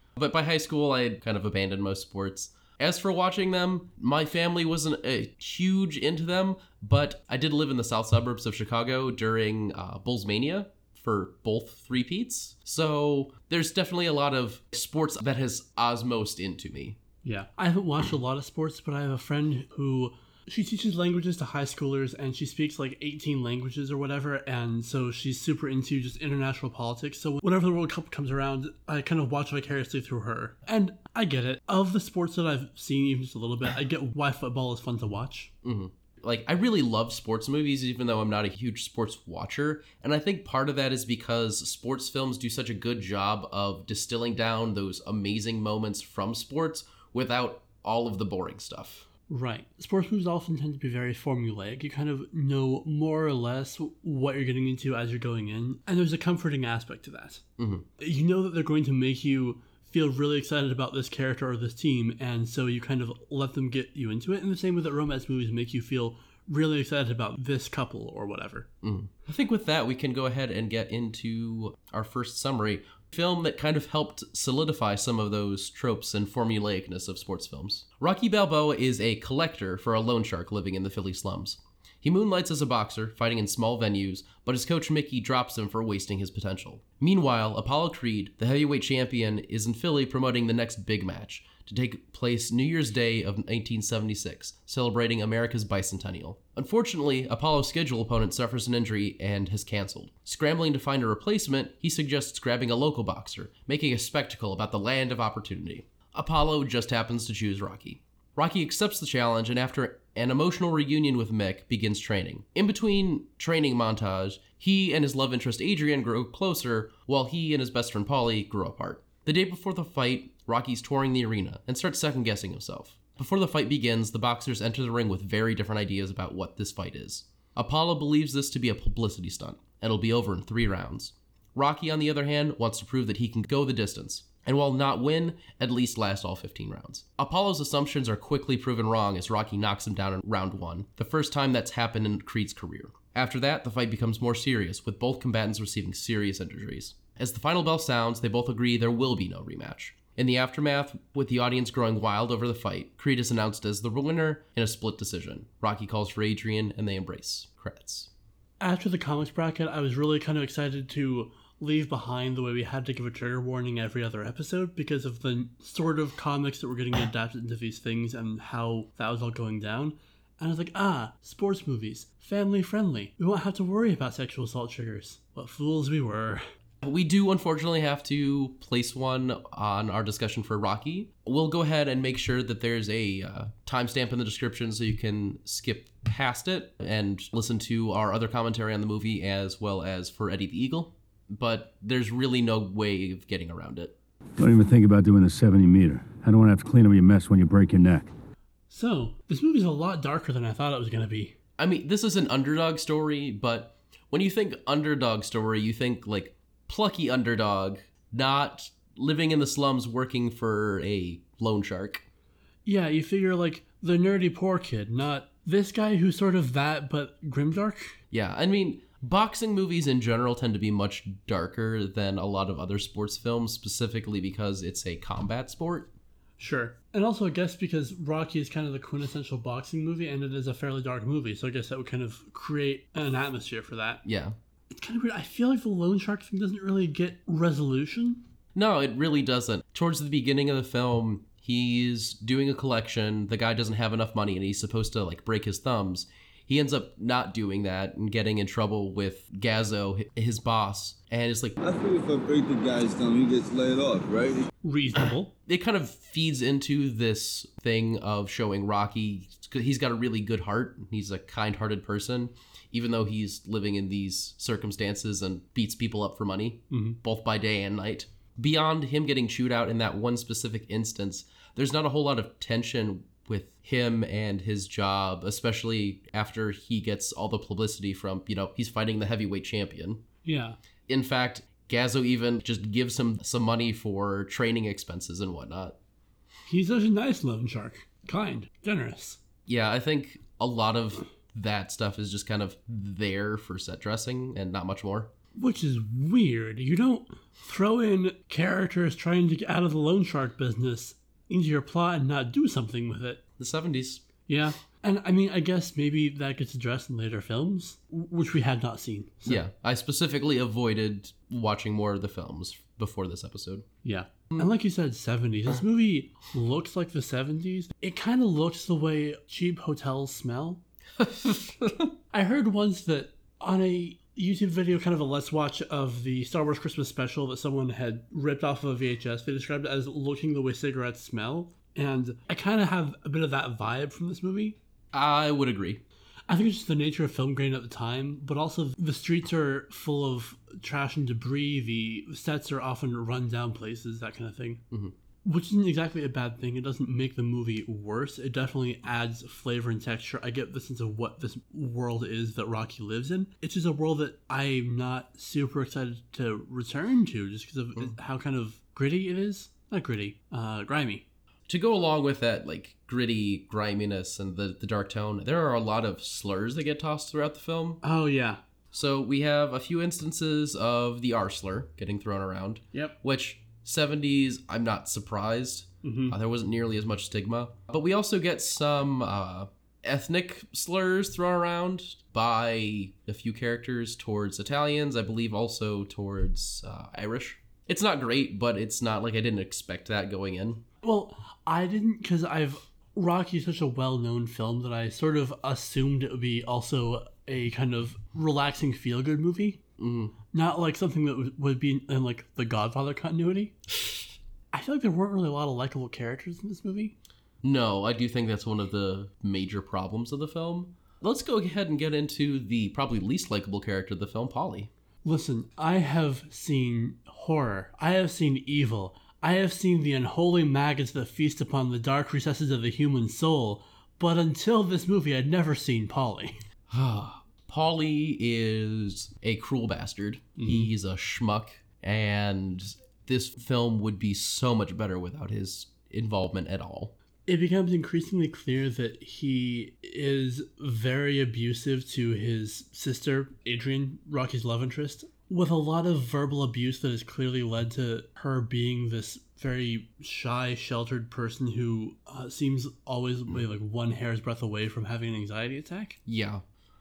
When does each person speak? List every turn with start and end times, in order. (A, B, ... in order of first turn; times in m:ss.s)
0:00.2-0:17.0 A
0:17.2-0:35.5 B
0:35.6-0:49.1 A
0:49.3-0:57.4 B
0:57.6-0:57.8 A
0:58.0-1:08.7 B
1:08.8-2:38.1 A
2:38.6-2:56.4 B
2:56.8-3:13.9 A
3:14.4-3:18.1 C
3:18.7-3:21.4 B
3:21.6-3:32.0 A
3:32.6-3:38.0 B
3:38.1-3:45.9 A
3:46.4-3:54.0 B
3:54.0-3:54.4 A
3:54.7-3:58.2 B
3:58.5-4:11.6 A
4:11.6-4:14.5 D
4:14.6-4:15.3 B
4:15.5-4:40.0 A
4:26.7-4:27.0 B
4:40.2-4:40.6 B
4:40.9-4:45.8 A
4:46.5-4:49.2 B
4:49.5-4:55.1 A
4:55.3-5:03.2 B
5:03.4-5:04.0 A
5:04.3-5:09.4 B
5:09.2-5:13.6 A
5:13.8-5:20.6 B
5:21.0-5:21.9 A
5:22.1-5:34.6 B
5:34.9-5:35.8 A
5:36.3-5:44.6 B
5:45.2-6:01.0 B
6:01.5-6:07.8 A
6:07.8-6:08.4 B
6:08.7-6:30.6 A
6:15.8-6:16.1 B
6:30.8-6:39.6 B
6:39.8-6:40.1 A
6:40.3-6:43.6 B
6:44.5-6:46.9 B
6:47.4-6:54.7 A
6:55.0-7:06.4 B
7:06.7-7:16.9 A
7:10.4-7:10.7 B
7:17.3-7:36.0 B
7:36.1-7:36.4 A